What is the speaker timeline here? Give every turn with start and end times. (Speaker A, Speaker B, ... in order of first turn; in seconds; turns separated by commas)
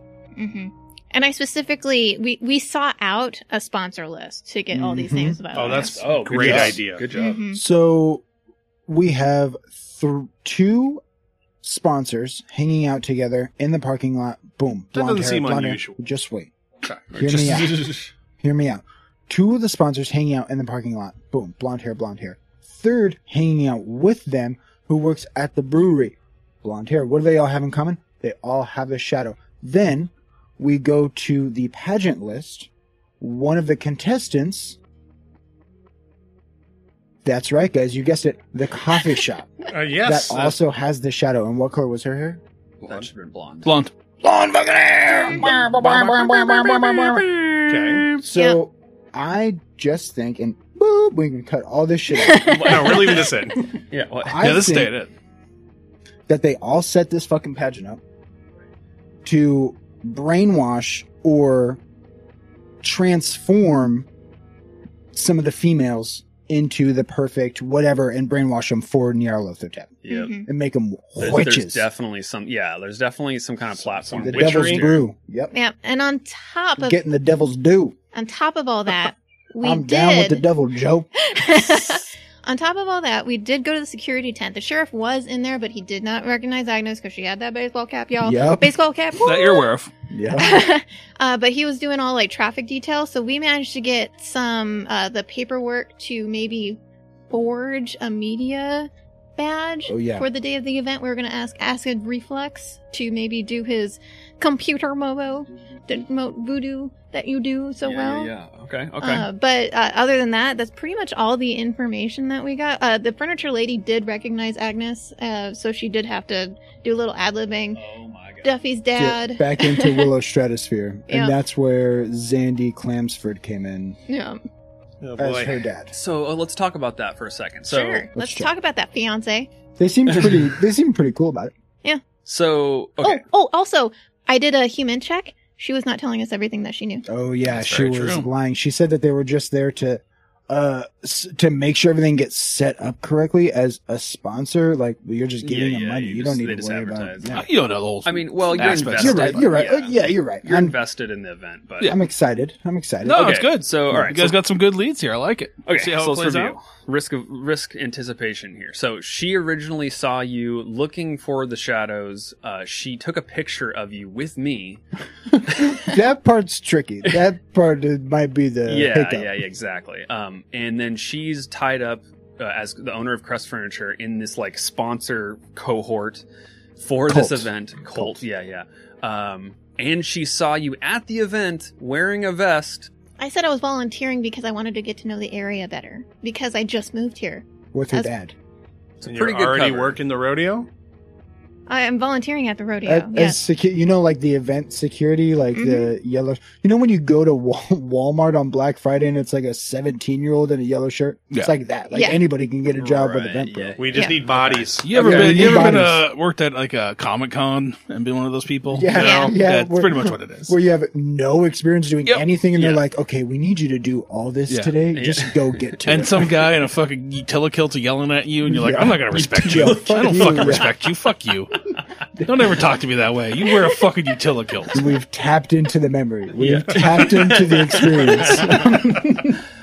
Speaker A: 0.4-6.6, Speaker B: 4.7-5.4, Speaker C: 5.5-7.1, Speaker D: 6.0-7.4, Speaker B: 6.4-6.8, Speaker A: 7.1-7.6, Speaker B: 7.5-8.2, Speaker B: 8.9-11.0, Speaker B: 11.6-16.5, Speaker C: 14.9-16.0, Speaker D: 17.1-18.1, Speaker B: 17.1-32.7, Speaker B: 33.2-34.8, Speaker B: 37.2-42.4, Speaker C: 39.7-40.6, Speaker D: 42.8-43.7, Speaker E: 43.6-43.9, Speaker B: 44.2-47.6, Speaker D: 45.3-46.1, Speaker E: 45.4-47.3, Speaker C: 47.7-48.1, Speaker E: 47.9-48.2, Speaker B: 48.2-52.6, Speaker A: 48.3-48.6, Speaker A: 52.1-53.2, Speaker D: 52.5-54.7, Speaker C: 52.6-53.7, Speaker B: 54.2-54.9, Speaker E: 54.4-55.1, Speaker B: 56.3-58.0, Speaker B: 59.2-61.8, Speaker B: 62.8-64.1, Speaker B: 65.1-71.8, Speaker D: 70.0-70.3, Speaker A: 70.1-70.5, Speaker D: 71.2-75.1, Speaker C: 74.1-74.9, Speaker B: 74.1-75.5, Speaker A: 75.5-77.0, Speaker B: 76.8-78.0, Speaker A: 78.1-80.5, Speaker B: 79.6-81.1, Speaker A: 81.1-89.7, Speaker B: 88.2-88.8, Speaker E: 89.2-89.9, Speaker B: 90.1-90.7, Speaker A: 90.3-108.3, Speaker B: 99.9-100.3, Speaker D: 107.8-109.3, Speaker A: 109.0-117.8, Speaker D: 117.7-118.6, Speaker A: 118.4-120.1, Speaker B: 119.0-124.0, Speaker A: 121.1-121.4, Speaker A: 124.1-124.4, Speaker C: 125.0-125.7, Speaker B: 125.2-125.9, Speaker D: 125.9-128.1, Speaker A: 127.7-129.5, Speaker B: 128.1-128.5, Speaker B: 129.8-131.5, Speaker D: 130.1-130.5, Speaker D: 132.2-133.2, Speaker A: 133.0-137.1, Speaker B: 137.1-147.5, Speaker E: 137.5-138.3, Speaker D: 145.4-147.4, Speaker E: 147.3-149.5, Speaker D: 148.0-152.0, Speaker B: 148.6-150.7, Speaker B: 151.8-153.4, Speaker E: 153.0-156.6, Speaker D: 153.1-154.3, Speaker B: 153.9-154.3, Speaker D: 155.7-164.8, Speaker B: 165.5-169.4, Speaker D: 168.6-176.2, Speaker D: 176.8-182.9, Speaker B: 177.1-178.2, Speaker A: 183.2-188.1, Speaker B: 187.7-188.3, Speaker D: 189.0-190.0, Speaker C: 189.1-190.7, Speaker A: 191.7-193.4, Speaker B: 192.8-203.8, Speaker A: 195.6-195.9, Speaker A: 201.9-202.2, Speaker D: 202.7-205.2, Speaker C: 203.8-205.8, Speaker A: 203.9-204.2, Speaker E: 204.8-210.6, Speaker B: 204.9-206.0, Speaker B: 208.7-216.4, Speaker A: 208.9-209.4, Speaker D: 212.6-212.8, Speaker E: 214.5-214.8, Speaker D: 214.9-215.8, Speaker E: 215.8-221.6, Speaker B: 218.4-220.8, Speaker D: 219.1-220.8, Speaker E: 222.2-224.9, Speaker B: 224.7-229.4, Speaker D: 226.3-229.3